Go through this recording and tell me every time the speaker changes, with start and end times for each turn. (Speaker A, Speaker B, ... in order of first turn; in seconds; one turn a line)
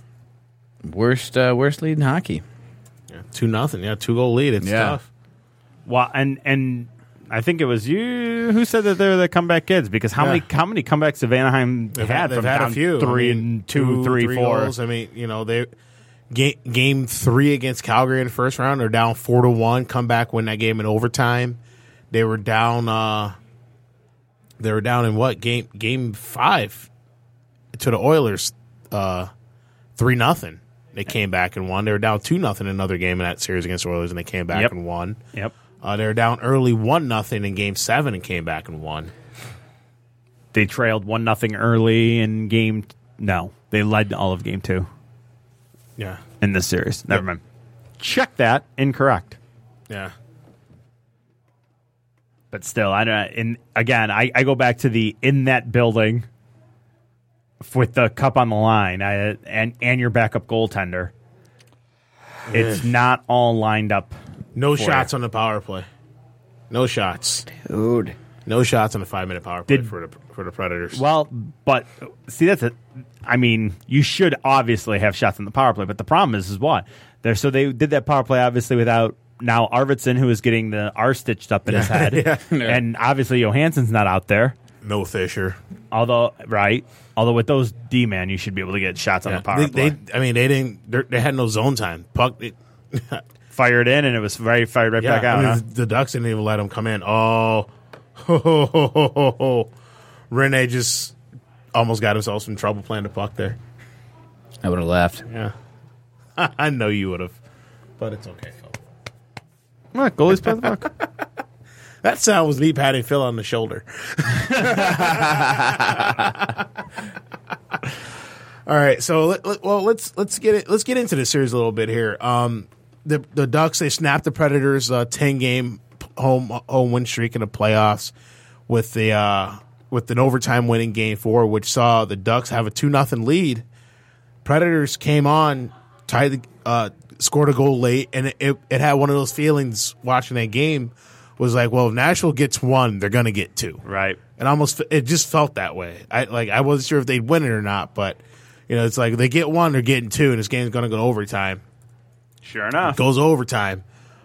Speaker A: 0.8-2.4
Speaker B: 3.1-5.0
Speaker A: 4.6-5.0
Speaker C: 5.8-14.7
Speaker B: 10.2-10.4
Speaker B: 11.9-15.7
Speaker B: 16.3-21.6
Speaker B: 22.1-23.4
Speaker B: 24.6-26.9
Speaker B: 27.7-29.3
Speaker B: 29.9-35.2
Speaker B: 35.8-39.1
Speaker C: 40.5-44.9
Speaker C: 46.4-47.4
Speaker C: 48.0-49.4
Speaker B: 49.9-50.1
Speaker C: 52.5-56.2
Speaker C: 57.6-61.1
Speaker B: 62.5-62.9
Speaker C: 62.5-64.2
Speaker B: 64.5-65.8
Speaker C: 64.7-65.1
Speaker B: 66.7-67.5
Speaker A: 67.6-68.1
Speaker B: 68.5-71.0
Speaker C: 70.9-84.5
Speaker B: 81.7-82.6
Speaker A: 82.5-82.8
Speaker B: 84.8-85.6
Speaker C: 85.9-90.0
Speaker B: 89.2-93.2
Speaker C: 93.5-95.6
Speaker B: 95.0-99.7
Speaker B: 100.3-101.2
Speaker B: 101.7-103.6
Speaker A: 104.6-105.2
Speaker B: 105.3-105.5
Speaker B: 106.3-107.3
Speaker B: 108.0-108.8
Speaker C: 109.9-110.9
Speaker B: 110.4-111.0
Speaker B: 112.0-116.7
Speaker A: 115.0-115.8
Speaker B: 118.7-128.1
Speaker B: 128.7-133.6
Speaker B: 134.4-143.8
Speaker C: 143.8-144.2
Speaker B: 144.4-151.6
Speaker C: 152.4-153.0
Speaker B: 152.8-153.8